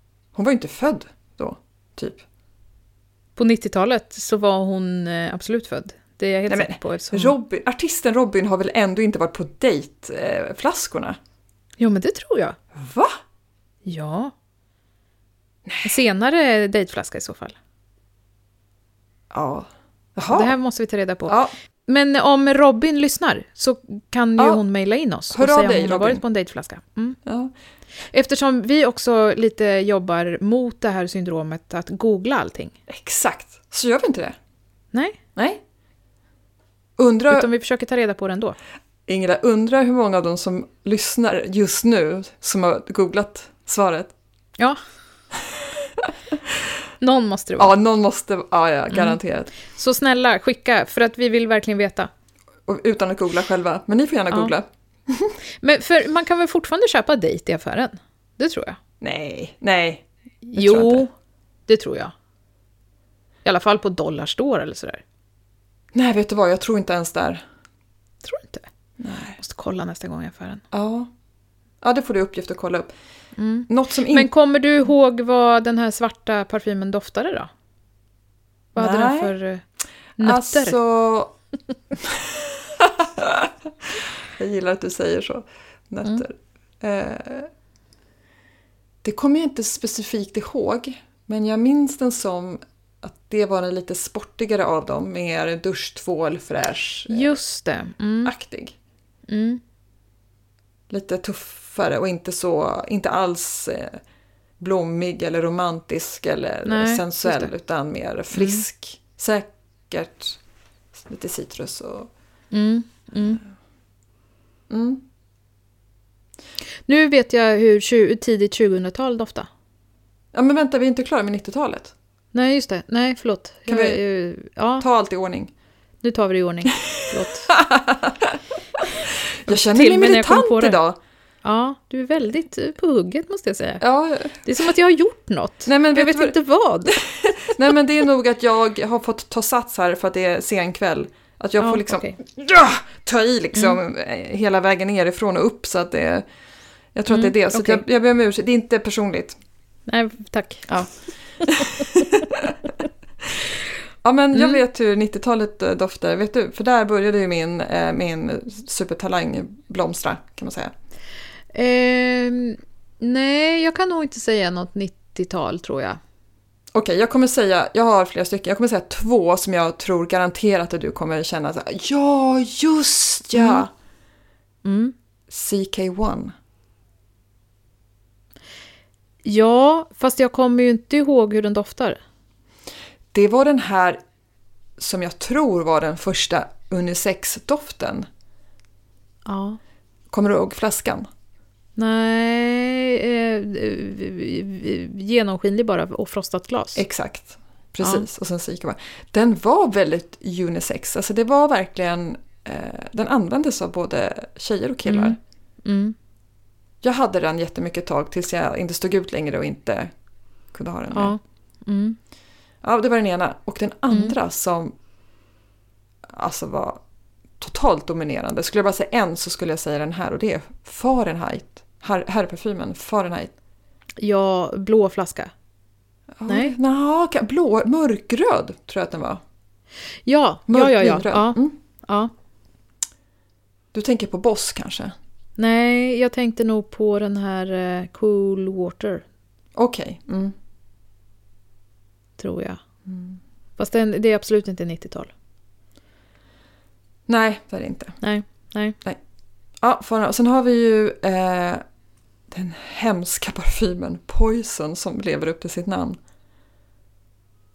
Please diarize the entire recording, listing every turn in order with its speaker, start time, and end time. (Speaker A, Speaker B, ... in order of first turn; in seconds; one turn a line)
Speaker A: 0.3-2.2
Speaker B: 3.4-7.4
Speaker A: 6.5-11.2
Speaker B: 11.8-12.6
Speaker A: 12.7-13.1
Speaker B: 13.8-14.3
Speaker B: 15.8-17.6
Speaker A: 19.3-20.5
Speaker B: 20.3-27.2
Speaker A: 21.3-21.5
Speaker A: 25.3-26.2
Speaker A: 27.2-27.5
Speaker B: 28.1-32.7
Speaker A: 32.9-34.4
Speaker B: 34.9-35.2
Speaker A: 35.4-35.6
Speaker A: 37.0-37.5
Speaker B: 37.3-38.6
Speaker A: 39.1-44.1
Speaker B: 47.0-47.7
Speaker A: 47.6-49.5
Speaker B: 48.9-52.1
Speaker A: 52.7-55.3
Speaker B: 55.6-58.8
Speaker A: 59.0-61.0
Speaker B: 60.4-61.1
Speaker B: 61.7-62.1
Speaker B: 63.4-65.0
Speaker A: 65.9-67.4
Speaker B: 68.2-68.7
Speaker A: 69.0-69.4
Speaker B: 69.4-70.6
Speaker A: 70.7-71.1
Speaker A: 71.8-72.9
Speaker B: 73.3-77.5
Speaker A: 73.7-74.3
Speaker B: 78.7-79.6
Speaker A: 78.8-79.3
Speaker B: 80.2-80.8
Speaker A: 80.2-81.3
Speaker A: 81.9-87.5
Speaker A: 89.0-97.3
Speaker B: 97.1-98.3
Speaker A: 98.2-98.8
Speaker B: 99.3-99.6
Speaker A: 100.9-104.0
Speaker A: 104.6-110.4
Speaker B: 106.6-107.5
Speaker B: 108.3-108.6
Speaker A: 111.0-112.1
Speaker B: 112.5-113.4
Speaker A: 114.7-115.0
Speaker B: 116.9-119.5
Speaker A: 120.3-121.9
Speaker B: 122.3-124.8
Speaker A: 123.7-124.0
Speaker A: 124.8-125.5
Speaker B: 126.0-127.5
Speaker A: 127.5-128.4
Speaker A: 129.0-131.0
Speaker B: 129.5-130.8
Speaker B: 131.4-133.8
Speaker A: 133.8-134.4
Speaker B: 134.4-137.0
Speaker A: 135.7-136.3
Speaker A: 137.1-146.2
Speaker B: 141.6-142.2
Speaker B: 143.5-143.8
Speaker A: 146.9-149.4
Speaker B: 147.1-147.8
Speaker B: 149.9-152.0
Speaker A: 151.5-152.5
Speaker A: 154.0-160.7
Speaker B: 154.3-154.6
Speaker B: 161.5-166.0
Speaker A: 166.7-173.7
Speaker B: 173.3-173.6
Speaker B: 174.6-174.9
Speaker A: 175.3-176.3
Speaker B: 179.2-182.0
Speaker A: 183.1-184.0
Speaker A: 184.8-188.1
Speaker B: 189.2-189.6
Speaker A: 190.1-191.1
Speaker B: 191.8-196.8
Speaker A: 196.8-205.2
Speaker B: 204.9-205.9
Speaker A: 206.8-209.9
Speaker A: 210.5-211.2
Speaker B: 210.9-212.0
Speaker A: 212.6-214.7
Speaker B: 213.9-214.2
Speaker A: 216.1-216.8
Speaker A: 217.4-223.3
Speaker B: 224.0-225.3
Speaker A: 226.2-229.2
Speaker B: 226.3-226.5
Speaker B: 230.1-232.1
Speaker A: 230.5-231.5
Speaker A: 233.7-234.9
Speaker B: 235.4-239.0
Speaker A: 239.5-240.3
Speaker B: 242.2-242.6
Speaker A: 242.9-243.2
Speaker B: 243.6-245.1
Speaker A: 247.1-248.0
Speaker B: 248.0-248.8
Speaker A: 249.6-251.6
Speaker A: 252.3-256.0